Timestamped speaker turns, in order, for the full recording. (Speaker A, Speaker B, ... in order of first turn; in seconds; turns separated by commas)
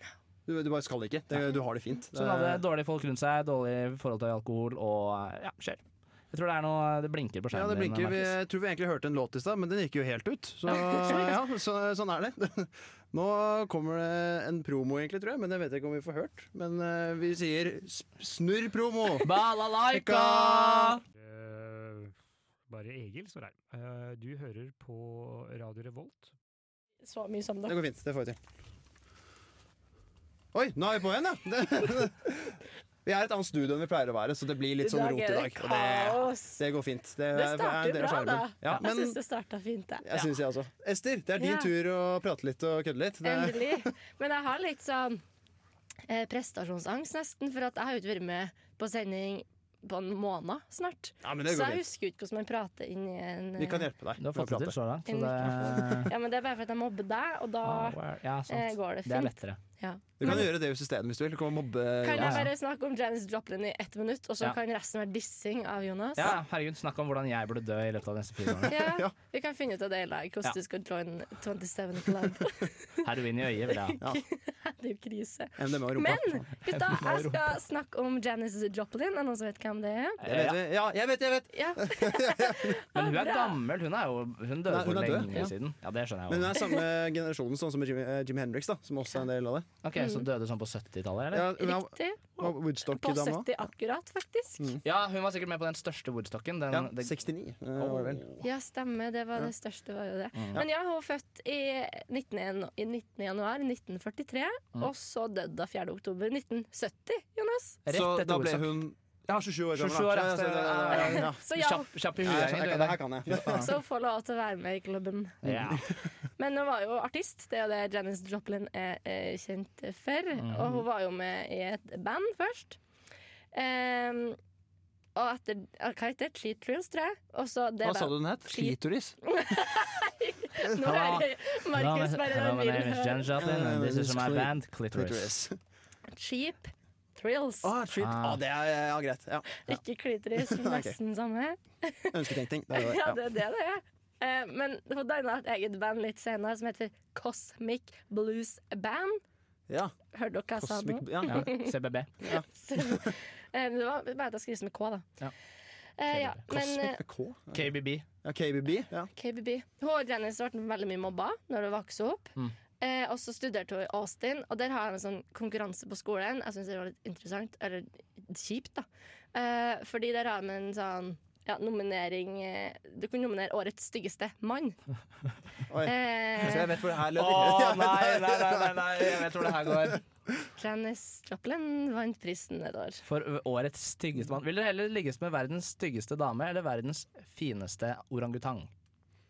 Speaker A: 0.5-2.6, Speaker B: 2.1-8.3, Speaker A: 7.5-21.0, Speaker C: 10.7-11.2, Speaker B: 19.2-21.0, Speaker D: 21.1-22.1, Speaker D: 22.7-26.3, Speaker C: 27.0-27.8, Speaker A: 27.6-28.4, Speaker A: 30.5-39.2, Speaker C: 34.8-36.6, Speaker C: 37.3-40.3, Speaker A: 40.0-43.9, Speaker C: 41.4-41.7, Speaker C: 43.2-45.2, Speaker C: 46.0-53.9, Speaker A: 51.2-51.8, Speaker A: 53.6-54.8, Speaker B: 54.2-56.1, Speaker C: 55.1-58.0, Speaker A: 55.4-56.0, Speaker B: 57.6-59.6, Speaker C: 58.5-60.5, Speaker A: 60.2-62.5, Speaker C: 62.0-66.3, Speaker B: 62.2-62.5, Speaker B: 66.2-68.8, Speaker A: 68.5-69.1, Speaker C: 68.7-72.7, Speaker B: 73.0-74.0, Speaker C: 73.7-80.2, Speaker A: 75.6-76.5, Speaker B: 76.7-77.5, Speaker B: 80.2-80.6, Speaker A: 80.2-82.8, Speaker C: 81.5-83.6, Speaker B: 82.9-86.6, Speaker A: 84.7-85.5, Speaker A: 86.3-89.7, Speaker B: 89.8-91.5, Speaker C: 89.9-90.2, Speaker A: 91.3-93.5, Speaker C: 91.5-94.8, Speaker B: 94.8-97.1, Speaker A: 96.7-98.2, Speaker C: 98.4-107.8, Speaker B: 100.3-100.6, Speaker B: 107.9-108.8, Speaker A: 107.9-111.4, Speaker B: 109.7-113.7, Speaker C: 110.9-111.9, Speaker A: 112.2-113.7, Speaker C: 113.5-115.4, Speaker B: 115.4-115.8, Speaker A: 115.4-116.0, Speaker C: 116.4-122.8, Speaker B: 120.4-120.8, Speaker C: 123.5-124.4, Speaker C: 125.1-133.3, Speaker A: 127.8-129.2, Speaker B: 130.7-135.3, Speaker A: 133.3-135.6, Speaker C: 136.1-137.7, Speaker A: 137.6-139.8, Speaker B: 138.0-138.4, Speaker C: 139.6-142.2, Speaker A: 140.3-140.9, Speaker A: 142.1-143.2, Speaker C: 142.7-149.2, Speaker A: 149.7-149.9, Speaker C: 150.1-151.7, Speaker A: 150.6-151.6, Speaker B: 151.2-152.1, Speaker A: 152.2-153.1, Speaker C: 152.2-155.1, Speaker C: 156.0-157.0, Speaker B: 156.1-156.4, Speaker A: 156.5-159.1, Speaker B: 157.5-158.1, Speaker C: 159.2-174.8, Speaker A: 175.7-180.0, Speaker C: 175.8-176.7, Speaker B: 177.1-180.0, Speaker C: 180.6-183.0, Speaker B: 183.1-188.7